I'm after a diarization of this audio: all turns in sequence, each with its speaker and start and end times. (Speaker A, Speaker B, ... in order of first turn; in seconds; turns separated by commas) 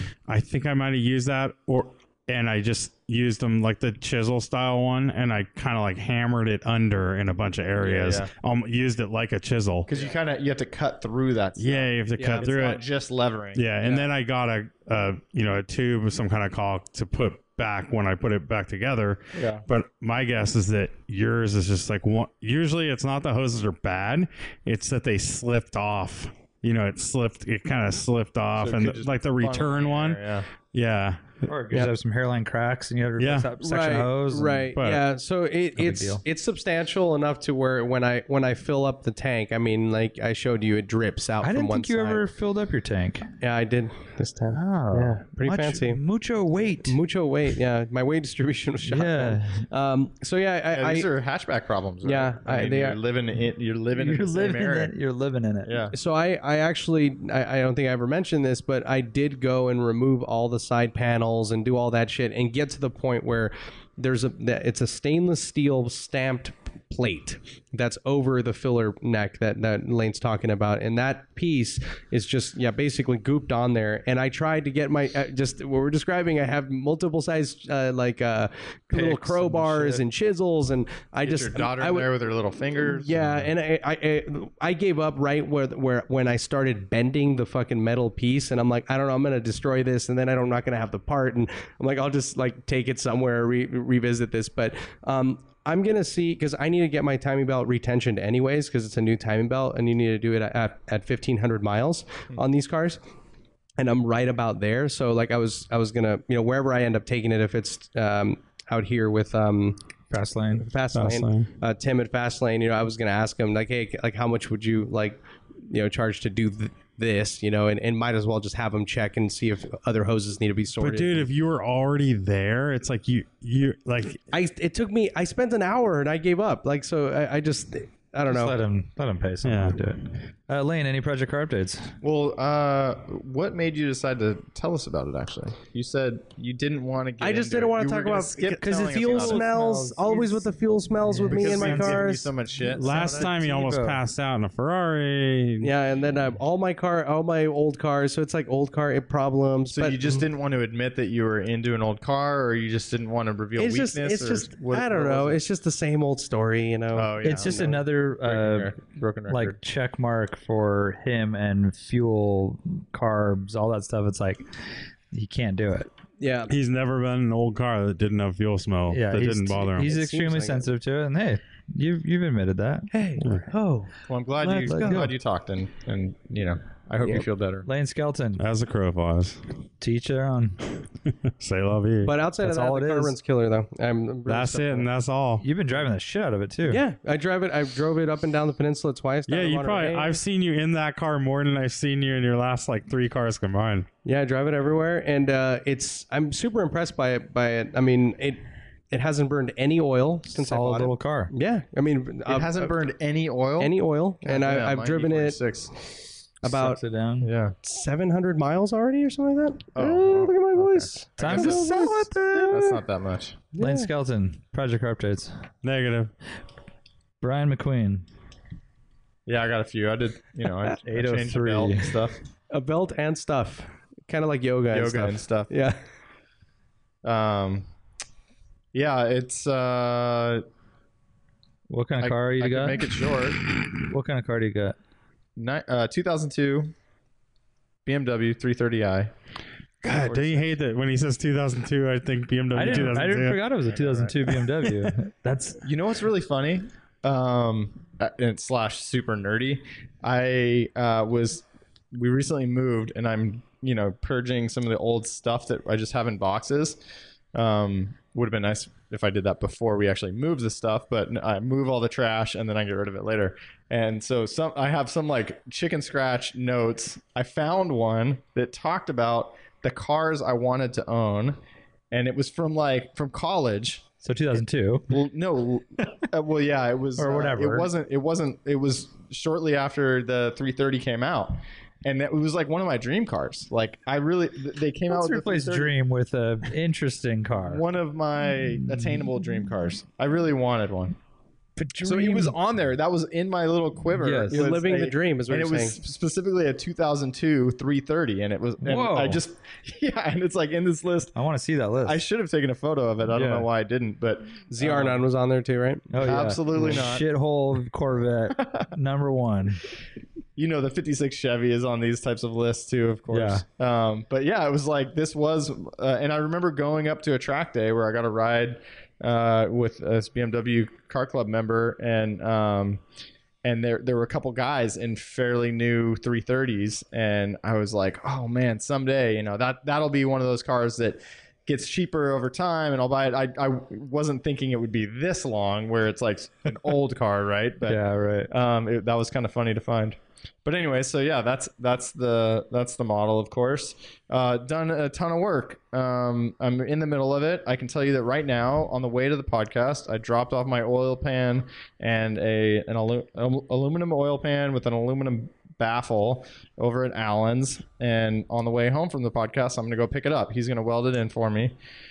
Speaker A: 0.3-9.9, Speaker B: 7.8-8.3, Speaker B: 9.9-14.0, Speaker A: 11.6-12.8, Speaker C: 12.2-12.5, Speaker A: 13.6-30.2, Speaker B: 19.4-19.6, Speaker B: 28.6-30.5, Speaker A: 30.7-31.4, Speaker D: 31.5-34.7, Speaker A: 33.2-33.5, Speaker C: 33.6-42.2, Speaker A: 34.8-35.0, Speaker D: 35.8-36.2, Speaker D: 41.4-43.3, Speaker C: 43.4-46.0, Speaker D: 44.5-47.0, Speaker C: 46.9-51.1, Speaker D: 48.8-49.7, Speaker B: 50.7-54.9, Speaker C: 52.0-53.0, Speaker D: 54.0-55.9, Speaker B: 55.6-55.9, Speaker C: 55.9-82.1, Speaker D: 78.9-80.0, Speaker B: 81.2-83.3, Speaker C: 82.8-103.0, Speaker C: 103.8-109.8, Speaker D: 110.1-110.7, Speaker C: 110.6-121.3, Speaker A: 110.9-111.5, Speaker A: 120.8-124.2, Speaker C: 124.3-128.6, Speaker D: 128.3-131.9, Speaker A: 129.4-129.8, Speaker B: 132.0-139.4, Speaker C: 137.2-142.3, Speaker D: 138.6-140.5, Speaker D: 141.0-144.0, Speaker B: 141.3-143.3, Speaker A: 142.8-145.7, Speaker C: 145.6-150.2, Speaker B: 149.7-155.4, Speaker C: 153.6-157.7, Speaker B: 156.9-159.6, Speaker D: 157.2-158.8, Speaker D: 159.3-164.5, Speaker D: 165.1-165.9, Speaker C: 166.2-166.5, Speaker A: 166.5-169.9, Speaker D: 168.9-172.9, Speaker C: 169.8-170.7, Speaker C: 172.9-173.9, Speaker B: 174.1-177.7, Speaker D: 174.4-175.2, Speaker C: 174.4-175.1, Speaker D: 177.7-178.4, Speaker A: 178.4-179.4, Speaker D: 179.8-180.6, Speaker A: 181.4-182.1, Speaker C: 182.1-184.9, Speaker D: 182.4-183.2, Speaker A: 184.3-185.4, Speaker D: 185.4-186.8, Speaker C: 186.7-190.2, Speaker A: 189.3-193.9, Speaker C: 194.1-202.8, Speaker D: 200.3-201.3, Speaker B: 202.3-205.7, Speaker C: 203.6-206.8, Speaker D: 206.4-207.3, Speaker B: 207.2-207.6, Speaker C: 207.6-212.6, Speaker B: 209.8-211.7, Speaker D: 211.2-212.8, Speaker B: 212.5-213.4, Speaker C: 213.5-213.9, Speaker D: 213.6-215.4, Speaker A: 215.6-216.1, Speaker D: 217.2-218.1, Speaker B: 219.3-222.2, Speaker D: 220.8-222.0, Speaker C: 222.5-225.8, Speaker B: 224.7-225.5, Speaker B: 227.0-227.7, Speaker B: 228.7-230.4, Speaker D: 231.7-233.1, Speaker B: 232.0-233.4, Speaker D: 233.8-234.8, Speaker B: 235.4-236.7, Speaker B: 237.8-239.1, Speaker A: 239.8-243.4, Speaker B: 239.9-240.5, Speaker D: 242.5-245.6, Speaker B: 242.7-244.2, Speaker B: 245.6-256.8, Speaker B: 257.3-271.4, Speaker B: 271.9-273.9, Speaker D: 274.0-275.0, Speaker B: 274.9-285.7, Speaker D: 277.0-277.7, Speaker D: 284.9-287.7, Speaker B: 287.4-291.0, Speaker D: 288.2-289.5, Speaker D: 291.6-292.4, Speaker B: 291.8-301.2, Speaker D: 294.0-294.4, Speaker C: 294.3-295.8, Speaker D: 298.6-299.2, Speaker D: 301.1-302.1, Speaker B: 301.8-305.0, Speaker D: 303.1-303.5, Speaker C: 304.5-306.0, Speaker D: 305.9-309.6, Speaker B: 306.0-307.1, Speaker B: 308.3-308.7, Speaker B: 310.4-322.8, Speaker D: 313.1-313.4, Speaker B: 323.4-361.6, Speaker D: 337.6-338.3